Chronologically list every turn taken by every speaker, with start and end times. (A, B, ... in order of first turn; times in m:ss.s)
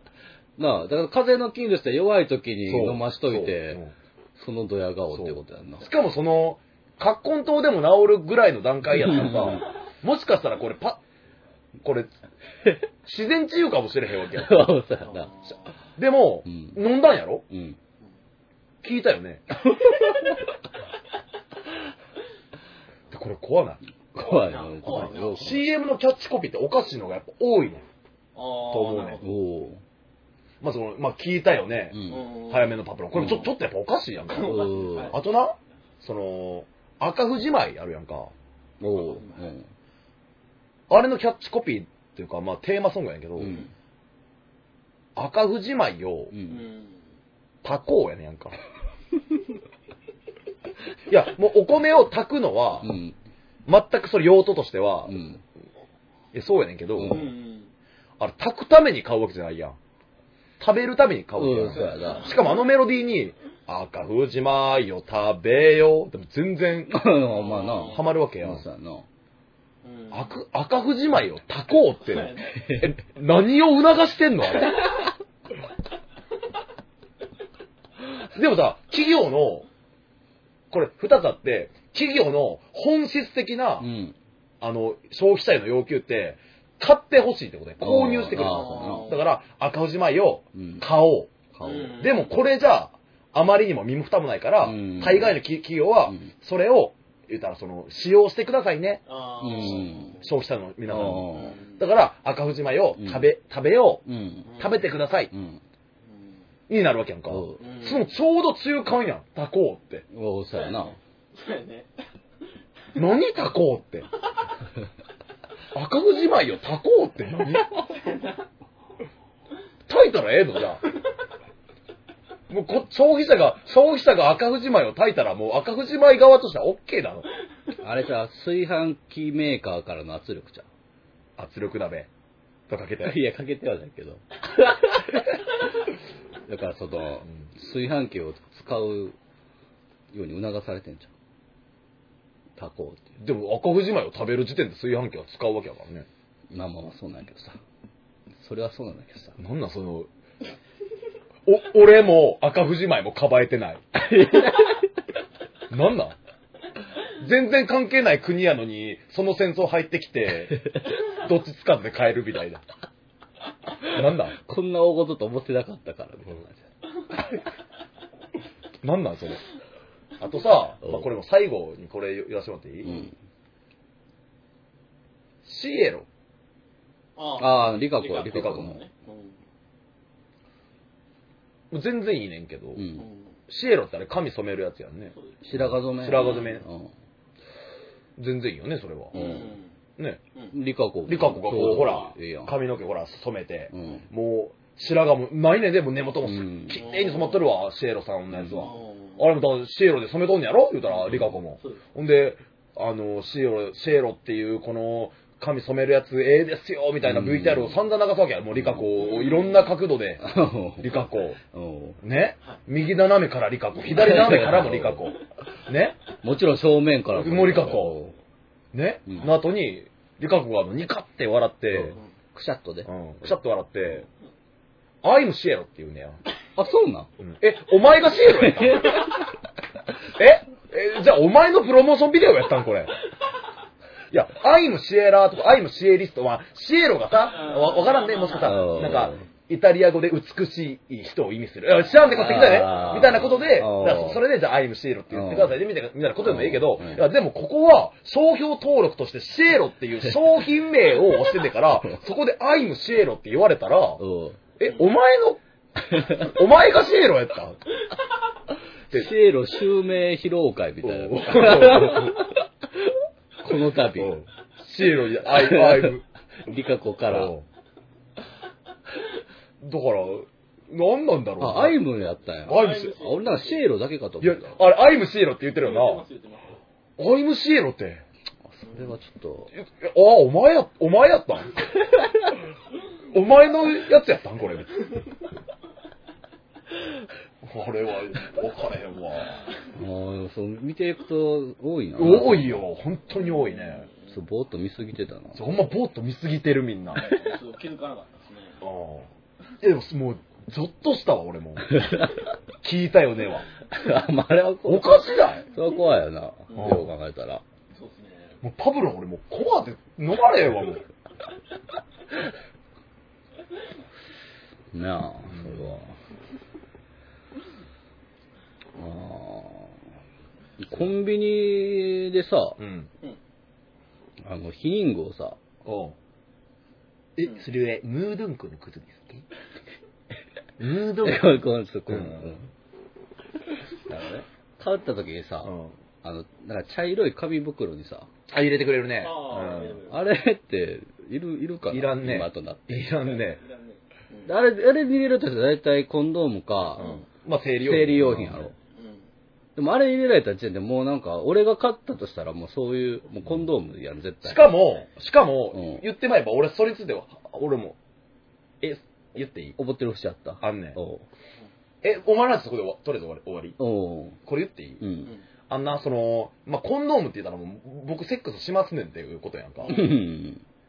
0:00.6-0:03.8 A
0:02.7-0:03.9 B
0:04.4-0:05.9 A
0:05.1-0:11.0 B
0:08.9-0:09.7 A
0:11.8-0:12.1 B
0:13.0-0:14.7 B
0:14.3-0:15.3 A
0:15.0-0:15.7 C
0:16.0-0:17.5 B
0:16.5-0:16.8 A
0:17.5-0:17.8 A
0:18.8-0:19.4 B
0:19.7-0:20.4 A
0:23.1-0:23.8 B
0:24.1-0:25.6 A
0:24.2-0:25.6 C
0:24.9-0:27.8 B
0:28.4-0:29.3 C
0:28.7-0:29.2 B
0:29.2-0:29.8 A
0:30.6-0:38.3 B
0:31.9-0:32.3 A
0:32.1-0:32.8 C
0:33.2-0:33.5 A
0:34.3-0:35.2 C
0:34.4-0:35.2 A
0:38.8-0:39.7 A
0:38.9-0:39.5 C
0:40.9-0:43.6 B
0:43.4-0:43.6 A
0:45.2-0:46.3 B
0:46.3-0:46.6 A
0:46.4-0:47.0 C
0:47.6-0:48.6 B
0:51.1-0:53.0 B
0:52.8-0:53.2 A
0:53.7-0:55.2 B
0:55.1-0:55.4 A
0:56.3-0:57.3 B
0:57.0-0:57.3 A
0:57.1-0:57.7 C
0:58.2-0:59.8 B
1:00.6-1:07.0 B
1:01.4-1:02.3 A
1:01.8-1:02.6 C
1:06.9-1:09.1 A
1:07.2-1:08.1 C
1:07.9-1:08.6 B
1:09.8-1:10.3 C
1:10.1-1:14.9 B
1:12.0-1:12.7 C
1:18.3-1:19.7 B
1:20.7-1:23.9 B
1:23.8-1:24.2 A
1:24.6-1:39.0 B
1:27.8-1:29.1 A
1:28.3-1:29.2 C
1:30.6-1:30.9 A
1:31.6-1:31.9 A
1:31.6-1:32.3 C
1:34.6-1:35.4 A
1:39.1-1:40.3 C
1:39.4-1:40.2 A
1:40.2-1:44.0 B
1:40.9-1:41.6 A
1:41.3-1:41.8 C
1:43.0-1:43.3 A
1:44.1-1:44.5 A
1:44.5-1:44.8 C
1:44.6-1:45.3 B
1:45.3-1:45.6 A
1:46.1-1:46.4 C
1:46.7-1:50.0 B
1:47.3-1:47.6 A
1:47.6-1:48.1 C
1:50.1-1:51.0 A
1:50.6-1:51.9 C
1:53.0-1:54.1 B
1:55.7-1:57.8 B
1:57.8-1:58.4 C
1:59.9-2:00.8 B
2:02.5-2:07.3 B
2:07.8-2:10.7 A
2:11.4-2:12.1 B
2:12.7-2:13.2 B
2:13.0-2:15.4 A
2:16.5-2:19.2 A
2:20.1-2:21.1 A
2:22.6-2:23.2 A
2:23.2-2:26.1 B
2:26.5-2:27.6 A
2:28.4-2:29.4 A
2:29.4-2:30.1 B
2:31.5-2:33.9 B
2:34.0-2:34.9 A
2:35.7-2:36.2 B
2:37.2-2:42.6 B
2:43.8-2:46.6 A
2:43.9-2:44.4 B
2:48.8-2:49.4 B
2:50.2-2:53.1 B
2:52.8-2:53.1 A
2:55.4-2:56.1 B
2:57.2-2:59.4 C
2:57.4-2:58.8 A
2:58.3-2:58.7 B
3:01.7-3:02.9 B
3:02.8-3:03.1 A
3:03.0-3:03.3 C
3:03.5-3:06.6 B
3:05.1-3:05.4 C
3:05.4-3:06.9 A
3:08.2-3:09.4 B
3:09.1-3:09.7 C
3:09.1-3:09.5 A
3:10.5-3:12.6 A
3:11.1-3:30.3 B
3:13.7-3:14.0 A
3:16.2-3:16.8 A
3:16.8-3:17.5 C
3:18.3-3:18.7 A
3:18.6-3:19.3 C
3:21.0-3:21.4 A
3:27.0-3:27.8 A
3:28.6-3:28.9 A
3:29.0-3:29.6 C
3:30.2-3:32.0 A
3:30.8-3:31.4 B
3:32.0-3:36.0 B
3:33.9-3:35.1 A
3:36.2-3:38.2 A
3:37.1-3:38.0 B
3:38.7-3:42.0 B
3:39.1-3:39.3 A
3:41.7-3:42.9 A
3:42.9-3:44.1 B
3:45.0-3:46.2 B
3:46.6-3:47.1 A
3:47.2-3:49.2 B
3:48.2-3:49.3 A
3:50.2-3:53.0 B
3:54.1-4:14.0 B
3:57.2-3:59.1 C
3:58.4-3:59.2 A
4:02.1-4:04.2 A
4:02.7-4:03.5 C
4:05.1-4:05.6 A
4:06.2-4:07.0 A
4:14.0-4:14.4 A
4:14.6-4:15.4 B
4:15.9-4:16.3 A
4:15.9-4:17.6 B
4:18.9-4:24.2 A
4:20.8-4:22.3 B
4:24.0-4:26.0 B
4:25.3-4:27.3 A
4:27.1-4:27.4 B
4:29.6-4:31.8 B
4:31.4-4:34.6 A
4:32.5-4:32.9 B
4:32.5-4:33.6 C
4:34.2-4:36.0 B
4:35.6-4:36.6 C
4:37.0-4:38.0 B
4:38.5-4:39.5 A
4:39.6-4:41.7 B
4:43.1-4:44.8 B
4:47.4-4:49.5 B
4:49.8-4:52.6 A
4:52.0-4:53.9 B
4:54.1-4:55.5 A
4:55.3-4:57.1 B
4:57.0-4:58.6 C
4:58.6-4:59.1 B
4:59.6-5:01.8 B
5:01.7-5:02.2 A
5:02.6-5:03.5 B
5:03.7-5:07.4 A
5:04.6-5:05.5 B
5:06.5-5:06.8 C
5:06.6-5:06.9 B
5:07.7-5:08.4 C
5:08.4-5:10.8 B
5:14.7-5:16.0 A
5:15.3-5:15.8 B
5:18.8-5:19.8 A
5:20.6-5:22.6 A
5:22.6-5:22.9 B
5:24.2-5:25.4 A
5:25.6-5:26.0 B
5:27.2-5:29.2 B
5:30.6-5:32.4 B
5:31.0-5:32.5 A
5:33.9-5:34.2 B
5:34.6-5:38.1 A
5:35.4-5:35.8 B
5:38.3-5:39.8 B
5:39.0-5:40.0 C
5:39.9-5:42.8 A
5:41.7-5:43.4 B
5:43.0-5:44.3 C
5:44.3-5:46.9 A
5:46.8-5:48.5 B
5:46.8-5:47.0 C
5:47.6-5:48.5 A
5:48.8-5:49.0 C
5:49.6-5:54.5 A
5:54.2-5:57.8 B
5:55.5-5:55.8 A
5:58.6-5:59.6 B
5:59.6-6:01.1 A
6:00.4-6:00.8 B
6:01.8-6:03.6 B
6:03.6-6:04.2 A
6:04.3-6:04.8 B
6:04.8-6:05.1 A
6:05.5-6:09.8 B
6:09.7-6:10.4 A